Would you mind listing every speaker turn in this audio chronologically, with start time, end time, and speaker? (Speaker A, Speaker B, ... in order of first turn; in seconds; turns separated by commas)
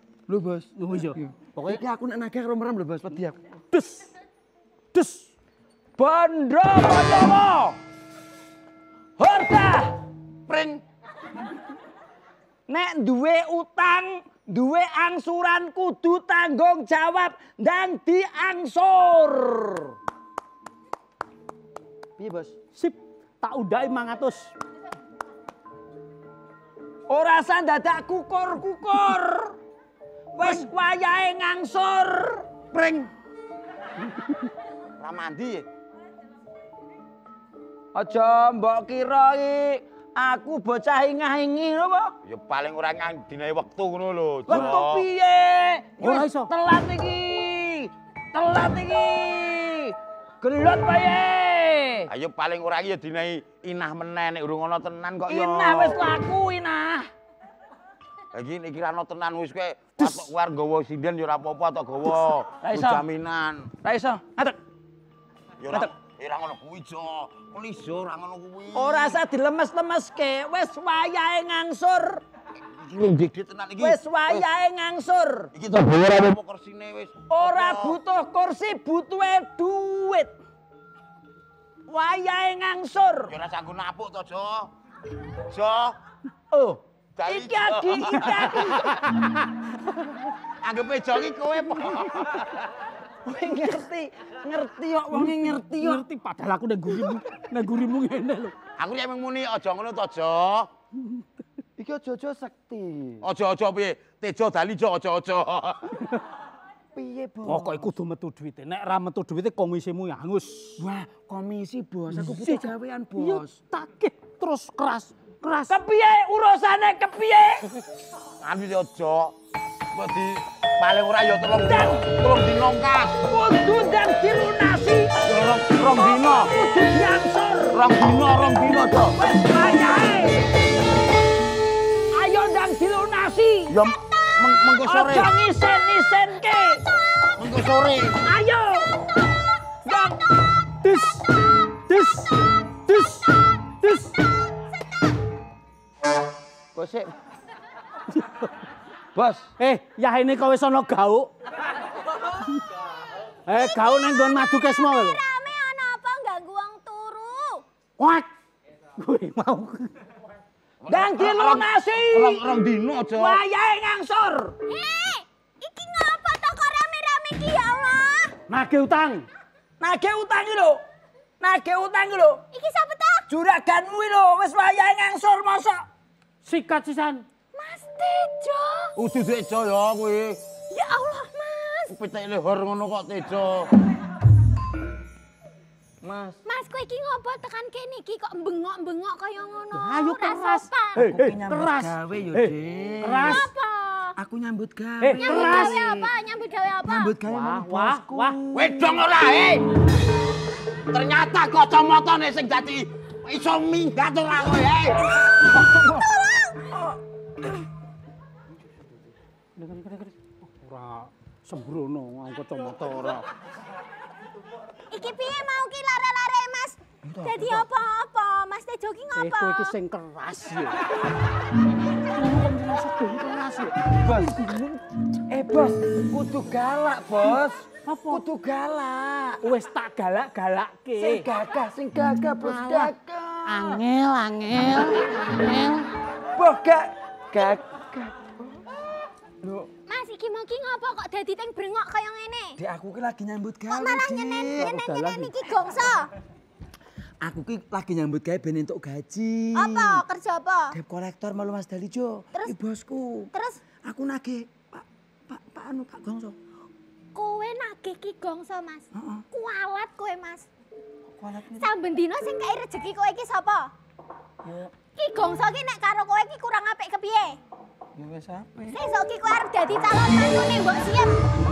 Speaker A: 0.3-3.4, Speaker B: 0.8-1.8, Speaker B: 3.7-4.1, Speaker B: 4.9-5.3, Speaker A: 6.0-7.8, Speaker A: 9.2-10.0, Speaker C: 10.5-10.8, Speaker A: 12.7-19.9, Speaker A: 22.2-22.6, Speaker B: 22.7-24.5, Speaker A: 27.1-29.6, Speaker A: 30.3-32.5, Speaker B: 32.7-33.1, Speaker C: 35.0-35.6, Speaker A: 37.9-42.1, Speaker C: 42.2-45.0, Speaker A: 44.5-52.1, Speaker B: 44.5-44.8, Speaker B: 46.0-46.5, Speaker C: 52.1-56.0, Speaker A: 55.3-57.1, Speaker C: 58.3-63.7, Speaker A: 60.0-60.3, Speaker A: 62.6-63.0, Speaker A: 63.8-64.6, Speaker C: 65.6-69.2, Speaker A: 68.7-72.2, Speaker C: 72.7-74.5, Speaker A: 73.8-75.5, Speaker C: 75.5-78.0, Speaker A: 77.3-80.3, Speaker A: 81.9-83.3, Speaker C: 83.3-84.7, Speaker C: 85.5-86.0, Speaker A: 86.5-89.0, Speaker C: 87.1-89.0, Speaker C: 90.6-92.5, Speaker A: 93.2-96.0, Speaker B: 95.1-98.5, Speaker C: 98.8-100.7, Speaker A: 101.8-103.2, Speaker C: 103.2-106.0, Speaker A: 106.9-107.9, Speaker B: 107.4-110.8, Speaker A: 110.8-113.6, Speaker B: 112.1-115.8, Speaker A: 115.7-117.7, Speaker C: 118.4-119.3, Speaker C: 119.9-123.2, Speaker A: 123.2-125.2, Speaker C: 125.2-126.5, Speaker A: 125.8-127.8, Speaker C: 127.7-129.2, Speaker A: 129.0-130.5, Speaker A: 132.1-133.8, Speaker C: 133.7-135.3, Speaker A: 134.8-136.8, Speaker C: 137.4-138.2, Speaker A: 138.2-138.9, Speaker A: 139.8-140.2, Speaker B: 140.8-141.3, Speaker B: 141.9-144.2, Speaker A: 146.7-147.1, Speaker B: 148.1-148.5, Speaker A: 149.1-149.5, Speaker B: 149.6-151.3, Speaker B: 152.3-152.7, Speaker B: 153.5-155.2, Speaker D: 153.5-157.6, Speaker B: 158.0-158.3, Speaker B: 159.0-159.9, Speaker C: 160.8-163.4, Speaker A: 160.9-164.6, Speaker D: 164.7-168.3, Speaker B: 168.5-169.3, Speaker A: 169.8-170.8, Speaker A: 171.4-172.4, Speaker D: 172.5-173.2, Speaker A: 173.3-175.8, Speaker B: 176.4-177.2, Speaker D: 177.5-178.9, Speaker C: 178.9-180.4, Speaker D: 180.7-182.0, Speaker C: 181.9-183.7, Speaker A: 186.0-186.4, Speaker D: 186.4-191.0, Speaker B: 189.7-193.5, Speaker A: 190.9-193.5, Speaker D: 193.2-194.1, Speaker A: 194.2-196.0, Speaker B: 195.0-196.0, Speaker D: 195.2-197.2, Speaker A: 196.8-199.0, Speaker B: 197.3-198.4, Speaker C: 198.5-199.7, Speaker C: 200.9-205.3, Speaker A: 205.4-206.1, Speaker D: 205.4-206.6, Speaker A: 206.7-207.0, Speaker B: 209.6-213.3, Speaker D: 214.9-219.7, Speaker A: 217.0-217.7, Speaker B: 219.2-220.8, Speaker B: 222.1-223.9, Speaker A: 224.0-229.4, Speaker B: 227.9-228.2, Speaker B: 229.4-231.3, Speaker A: 231.0-233.8, Speaker B: 232.4-232.9, Speaker B: 233.5-235.9, Speaker A: 236.3-238.6, Speaker A: 239.4-239.7, Speaker D: 239.9-242.6, Speaker A: 242.6-244.8, Speaker D: 243.7-246.1, Speaker B: 244.6-245.3, Speaker A: 247.2-250.0, Speaker D: 249.5-250.7, Speaker A: 250.7-253.3, Speaker D: 253.3-253.6, Speaker A: 253.8-256.4, Speaker D: 257.1-260.5, Speaker A: 258.9-259.2, Speaker A: 261.1-261.7, Speaker D: 261.6-263.7, Speaker A: 264.4-264.7, Speaker D: 264.9-267.4, Speaker A: 267.9-268.8, Speaker D: 268.7-271.2